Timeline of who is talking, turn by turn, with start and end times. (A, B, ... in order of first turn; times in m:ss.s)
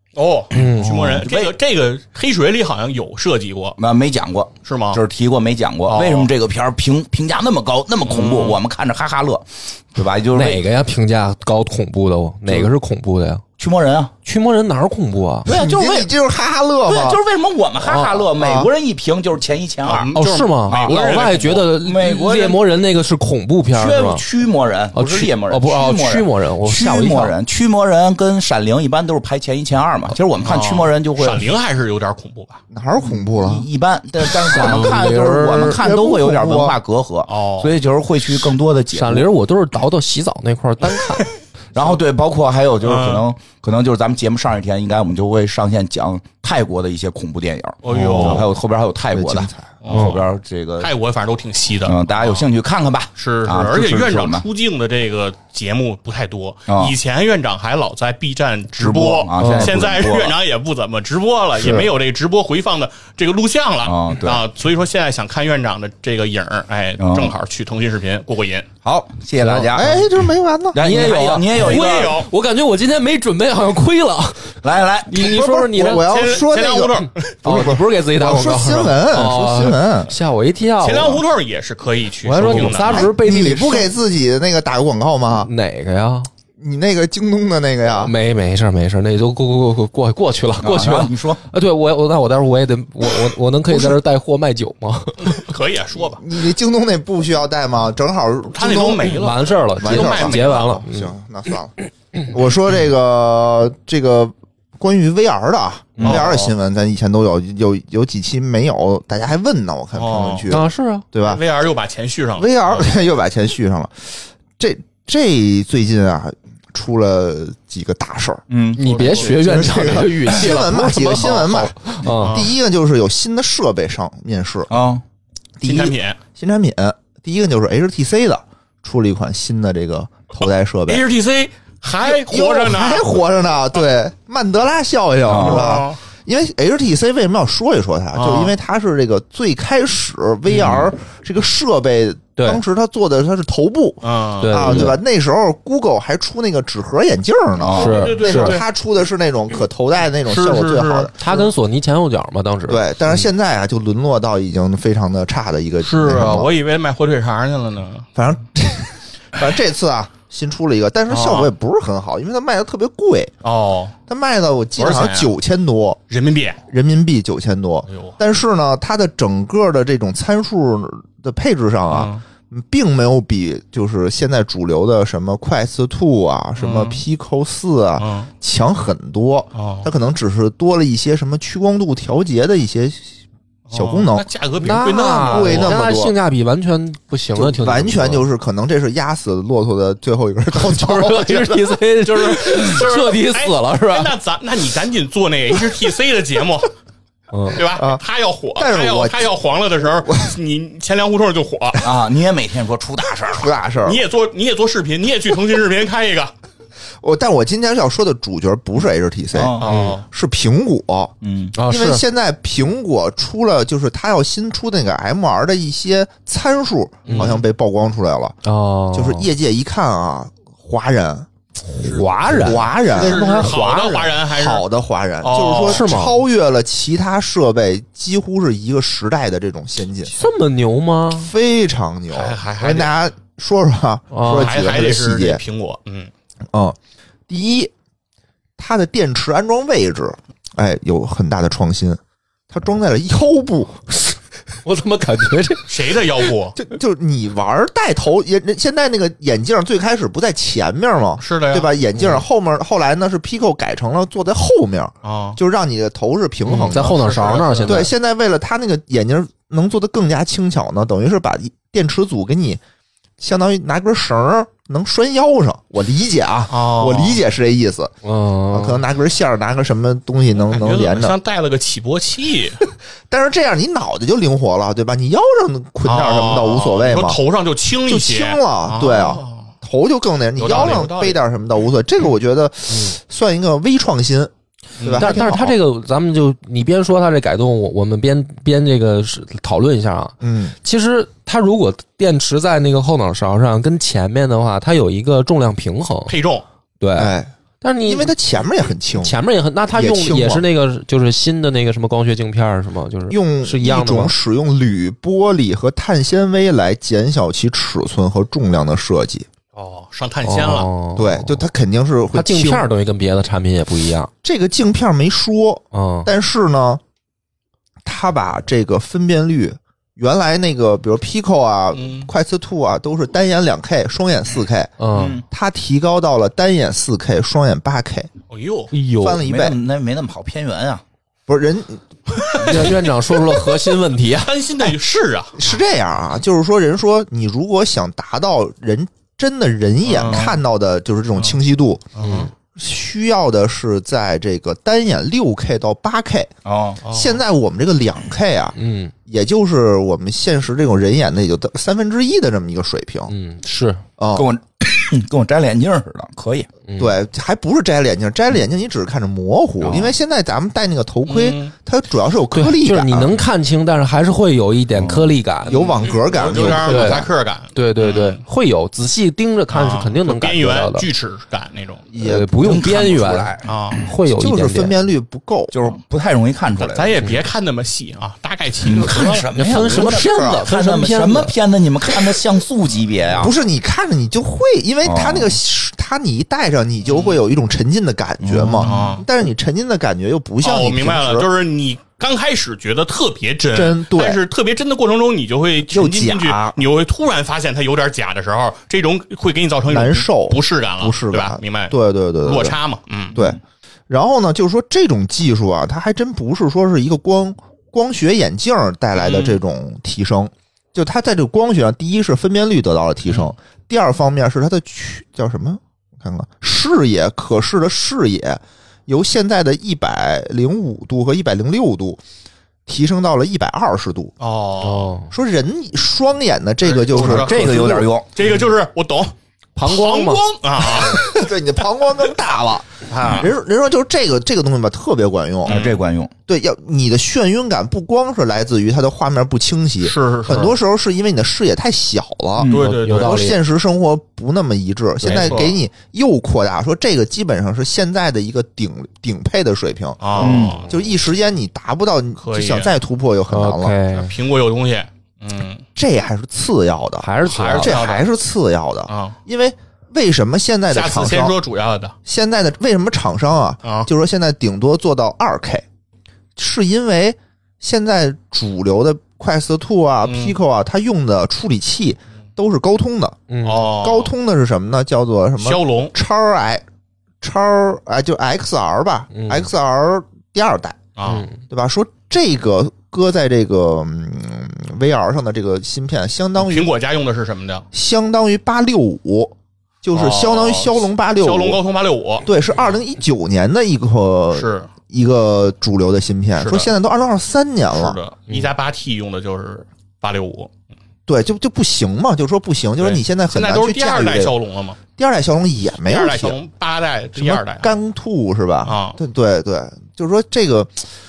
0:00.2-0:03.8 A
0:00.5-0:01.2 B
0:00.5-0:01.5 C
0:03.8-0:10.6 C
0:04.6-0:05.0 A
0:05.9-0:06.3 A
0:08.0-0:08.6 A
0:10.3-0:13.4 B
0:13.6-0:14.1 C
0:14.2-0:15.5 B
0:15.4-0:16.1 C
0:15.5-0:17.2 D
0:16.8-0:20.1 C
0:17.8-0:18.3 B
0:18.4-0:18.7 D
0:19.8-0:21.7 A
0:20.2-0:24.2 B
0:21.8-0:22.6 C
0:23.7-0:31.5 C
0:24.9-0:27.4 B
0:30.4-0:32.6 A
0:32.7-0:33.7 D
0:33.0-0:39.3 C
0:34.4-0:35.8 B
0:35.7-0:36.8 D
0:37.3-0:37.7 A
0:38.9-0:41.3 B
0:41.7-0:50.9 C
0:42.8-0:43.2 A
0:47.8-0:48.5 A
0:48.1-0:48.4 D
0:49.1-0:49.8 D
0:49.8-0:50.3 A
0:49.9-0:50.2 B
0:50.8-0:52.5 A
0:51.8-0:54.4 C
0:53.2-1:08.7 A
0:56.7-0:57.0 C
0:58.8-1:00.4 C
0:59.4-0:59.8 B
1:01.6-1:01.9 C
1:03.8-1:04.4 C
1:07.0-1:07.4 C
1:08.8-1:10.0 C
1:09.4-1:10.0 B
1:09.7-1:10.8 D
1:10.7-1:12.2 C
1:10.8-1:16.1 B
1:11.5-1:12.3 A
1:14.6-1:15.4 C
1:15.1-1:20.1 D
1:15.8-1:17.3 A
1:17.4-1:21.2 B
1:20.8-1:23.1 A
1:22.2-1:23.9 B
1:22.8-1:25.5 D
1:25.4-1:26.3 B
1:26.6-1:28.1 D
1:28.0-1:35.4 B
1:30.6-1:31.4 C
1:35.2-1:36.2 A
1:36.0-1:51.4 D
1:38.6-1:40.7 A
1:39.1-1:41.1 B
1:46.0-1:46.2 C
1:46.0-1:46.5 A
1:50.0-1:50.5 A
1:50.5-1:51.0 B
1:51.2-1:53.0 A
1:52.4-1:58.4 D
1:58.5-1:59.4 C
1:58.8-2:02.4 B
1:58.8-1:59.8 A
1:59.2-2:04.7 D
2:02.1-2:02.5 A
2:04.7-2:05.0 C
2:05.6-2:11.0 D
2:05.6-2:06.2 A
2:10.9-2:13.2 A
2:12.0-2:31.5 D
2:15.3-2:15.8 C
2:15.4-2:16.0 A
2:18.1-2:18.5 A
2:20.5-2:20.9 C
2:24.0-2:24.8 A
2:24.4-2:25.0 B
2:27.6-2:28.0 C
2:27.7-2:28.7 A
2:27.8-2:28.6 B
2:30.3-2:31.1 A
2:31.2-2:33.3 B
2:32.7-2:36.5 D
2:35.8-2:38.1 A
2:38.2-2:43.3 D
2:41.1-2:41.5 A
2:43.4-2:44.0 A
2:44.1-2:46.0 D
2:44.8-2:45.3 A
2:46.1-2:46.6 A
2:46.7-3:03.1 D
2:47.9-2:48.2 A
2:51.9-2:52.2 A
2:56.6-2:57.0 A
2:58.0-2:58.3 A
2:59.6-2:59.9 A
3:03.7-3:05.8 A
3:03.7-3:04.3 D
3:04.6-3:08.3 B
3:04.9-3:06.2 D
3:07.4-3:11.7 D
3:10.5-3:14.1 B
3:12.0-3:16.7 A
3:17.3-3:17.6 B
3:17.5-3:21.8 A
3:17.8-3:18.0 D
3:18.6-3:19.3 D
3:21.8-3:23.5 C
3:23.3-3:24.0 D
3:23.8-3:26.3 A
3:27.0-3:31.1 D
3:29.3-3:29.7 C
3:29.6-3:30.0 A
3:29.7-3:30.0 B
3:31.2-3:31.6 C
3:31.6-3:32.0 B
3:31.7-3:38.4 D
3:37.0-3:37.4 B
3:37.1-3:37.4 A
3:38.4-3:39.3 B
3:38.9-3:41.3 D
3:41.8-3:43.5 B
3:41.8-3:44.7 A
3:42.3-3:50.1 D
3:45.2-3:45.9 A
3:45.7-3:46.2 B
3:50.1-3:51.3 B
3:51.2-3:55.4 D
3:52.1-3:52.9 A
3:54.1-3:54.6 B
3:54.3-3:56.1 A
3:56.5-3:56.8 D
3:57.3-3:57.7 D
3:58.6-4:03.8 D
4:04.6-4:05.7 B
4:05.7-4:06.6 A
4:06.6-4:17.1 D
4:11.2-4:11.7 A
4:15.0-4:15.4 A
4:16.5-4:17.9 B
4:16.7-4:17.9 A
4:17.6-4:22.6 D
4:23.2-4:27.9 D
4:26.5-4:27.2 A
4:28.0-4:28.8 B
4:28.5-4:31.2 D
4:30.5-4:32.6 A
4:33.1-4:37.2 D
4:35.9-4:39.5 A
4:37.9-4:45.6 D
4:40.4-4:41.2 A
4:42.7-4:43.0 B
4:44.8-4:45.3 A
4:45.0-4:56.2 B
4:50.2-4:50.6 D
4:56.1-4:56.4 A
4:56.8-4:58.1 B
4:57.0-4:57.3 D
4:57.9-4:59.2 D
4:58.9-5:04.1 B
4:59.7-5:00.5 D
5:03.1-5:09.3 D
5:09.6-5:10.7 A
5:10.2-5:11.4 B
5:11.0-5:12.7 D
5:12.1-5:14.1 B
5:14.2-5:16.8 D
5:15.7-5:16.1 B
5:17.8-5:24.8 D
5:21.7-5:22.1 A
5:24.8-5:25.2 B
5:24.9-5:25.2 C
5:25.3-5:28.1 D
5:28.3-5:28.7 A
5:28.7-5:29.2 B
5:29.0-5:29.6 D
5:29.1-5:30.8 C
5:31.3-5:31.8 D
5:32.1-5:35.5 A
5:32.4-5:34.3 B
5:35.4-5:41.9 D
5:39.9-5:40.4 A
5:42.0-5:42.3 A
5:42.0-5:42.3 B
5:42.6-5:46.3 D
5:46.4-5:46.8 C
5:46.8-5:47.2 A
5:46.9-5:48.6 D
5:48.6-5:48.9 B
5:49.1-5:53.1 D
5:53.1-5:53.8 B
5:54.0-5:54.3 D
5:54.2-5:56.5 C
5:56.7-5:57.0 B
5:56.8-6:03.2 D
5:59.6-6:00.0 C
6:01.1-6:01.5 A
6:02.3-6:05.7 B
6:04.7-6:05.1 C
6:05.5-6:08.2 A
6:05.5-6:07.1 D
6:06.4-6:10.9 B
6:09.5-6:11.8 A
6:11.9-6:12.5 D
6:12.0-6:14.8 B
6:12.4-6:13.9 C
6:13.4-6:13.8 A
6:14.1-6:15.5 D
6:15.5-6:17.1 C
6:16.6-6:19.3 A
6:18.6-6:23.3 C
6:19.4-6:21.4 B
6:19.7-6:20.4 D
6:23.1-6:31.3 D
6:24.8-6:25.4 C
6:26.8-6:27.2 A
6:28.3-6:28.8 C
6:28.6-6:29.1 A
6:30.4-6:43.2 A
6:33.5-6:34.2 D
6:35.7-6:36.6 D
6:39.7-6:42.6 D
6:43.2-7:02.0 D
6:49.0-6:49.4 A
7:02.7-7:04.2 D
7:04.2-7:04.9 A
7:04.6-7:05.1 B
7:05.1-7:07.9 D
7:06.6-7:11.2 A
7:06.9-7:08.1 C
7:09.6-7:10.2 B
7:10.6-7:15.6 D
7:12.9-7:13.3 A
7:15.4-7:16.1 C
7:15.5-7:15.8 A
7:16.3-7:33.8 D
7:19.8-7:20.6 A
7:22.4-7:22.7 C
7:22.4-7:23.2 A
7:22.5-7:23.4 B
7:25.0-7:25.6 A
7:30.0-7:30.9 A
7:30.2-7:30.6 C
7:32.2-7:32.7 A
7:33.3-7:34.1 B
7:33.9-7:35.6 A
7:35.8-7:41.4 D
7:37.0-7:37.8 B
7:37.2-7:38.1 A
7:38.9-7:39.2 A
7:40.7-7:42.0 A
7:42.1-7:45.6 D
7:46.4-7:56.6 D
7:50.0-7:50.4 A
7:53.3-7:53.7 B
7:53.4-7:54.1 A
7:55.4-7:55.9 A
7:57.2-8:00.8 D
7:59.1-7:59.5 B
8:01.0-8:01.3 A
8:01.1-8:01.4 B
8:01.5-8:06.7 D
8:06.4-8:07.7 A
8:07.7-8:11.6 D
8:09.9-8:12.3 A
8:12.2-8:18.0 D
8:14.3-8:14.7 A
8:16.4-8:16.7 A
8:17.7-8:20.5 A
8:21.1-8:24.3 D
8:22.8-8:24.8 A
8:25.0-8:26.4 D
8:25.8-8:27.8 A
8:27.2-8:30.8 D
8:28.6-8:29.0 A